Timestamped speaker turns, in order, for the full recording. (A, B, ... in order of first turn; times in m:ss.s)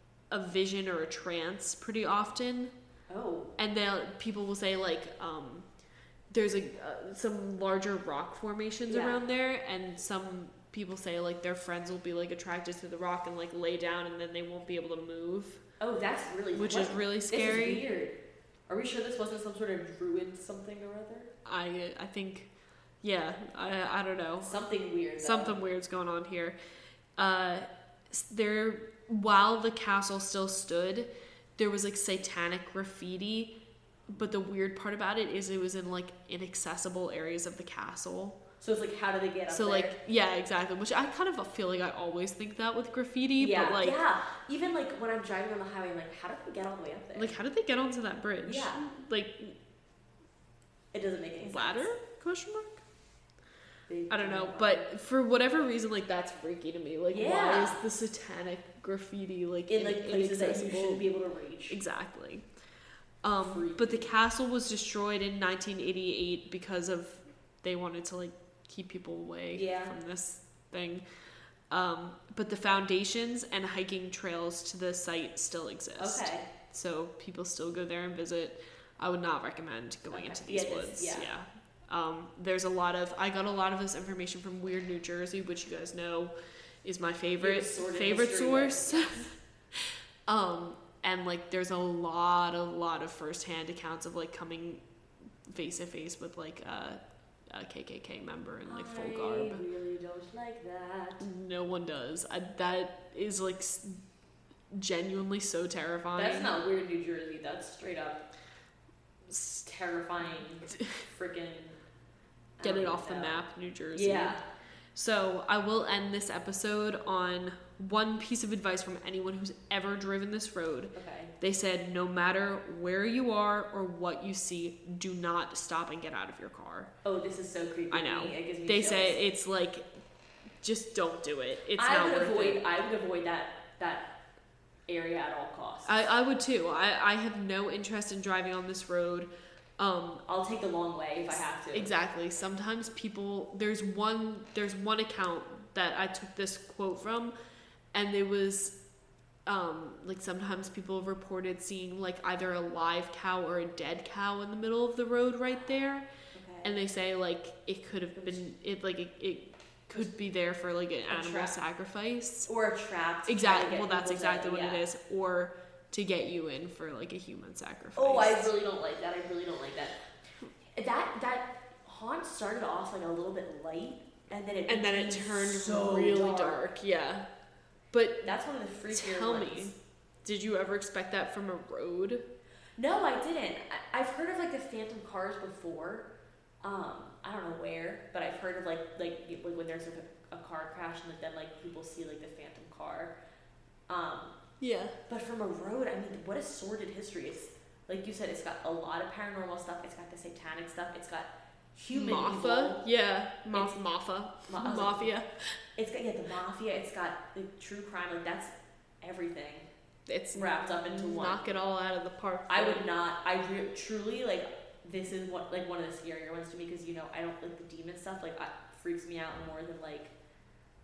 0:00.3-0:02.7 A
0:03.1-0:03.6 B
0:03.6-0:05.7 A
0:06.3-0:15.6 A
0:08.9-0:09.2 B
0:15.8-0:21.3 B
0:16.5-0:17.8 A
0:21.4-0:22.5 A
0:23.0-0:24.5 A
0:24.4-0:25.6 B
0:25.2-0:26.6 A
0:27.2-0:33.6 A
0:34.1-0:38.4 A
0:38.6-0:40.0 B
0:39.5-0:44.0 A
0:43.4-0:47.4 B
0:47.2-0:49.6 A
0:48.4-0:48.9 B
0:50.9-0:51.9 B
0:51.4-0:52.8 A
0:53.9-0:54.9 B
0:54.1-1:01.1 A
0:57.1-0:57.8 B
0:59.7-1:01.8 B
1:01.7-1:02.5 A
1:03.2-1:11.0 A
1:03.4-1:04.1 B
1:09.5-1:09.9 B
1:11.7-1:34.8 A
1:16.0-1:16.5 B
1:20.1-1:21.3 B
1:27.4-1:29.3 B
1:35.5-1:39.6 A
1:38.6-1:41.2 B
1:41.2-1:44.0 A
1:44.7-1:46.6 A
1:46.2-1:48.2 B
1:49.3-1:49.6 A
1:49.5-1:51.8 B
1:50.8-1:51.0 A
1:52.6-1:54.4 B
1:52.6-1:54.4 A
1:55.0-2:06.9 A
2:00.9-2:01.3 B
2:07.0-2:09.2 B
2:07.9-2:09.9 A
2:10.6-2:12.6 A
2:11.8-2:14.1 B
2:14.9-2:16.0 B
2:15.9-2:20.2 A
2:20.3-2:21.9 B
2:21.7-2:27.3 A
2:27.9-2:28.8 A
2:29.5-2:36.1 A
2:36.3-2:36.7 B
2:36.6-2:42.5 A
2:41.1-2:41.6 B
2:42.5-2:44.8 B
2:43.3-2:48.5 A
2:48.0-2:50.0 B
2:50.8-2:56.6 B
2:54.7-2:57.3 A
2:57.9-2:58.3 A
2:58.2-2:59.7 B
2:58.9-3:02.3 A
3:02.8-3:06.1 B
3:06.6-3:13.2 B
3:13.9-3:14.4 B
3:14.6-3:15.0 A
3:15.1-3:22.8 B
3:21.9-3:25.6 A
3:24.5-3:25.1 B
3:25.8-3:29.7 B
3:30.1-3:32.9 A
3:30.3-3:31.6 B
3:32.5-3:40.1 B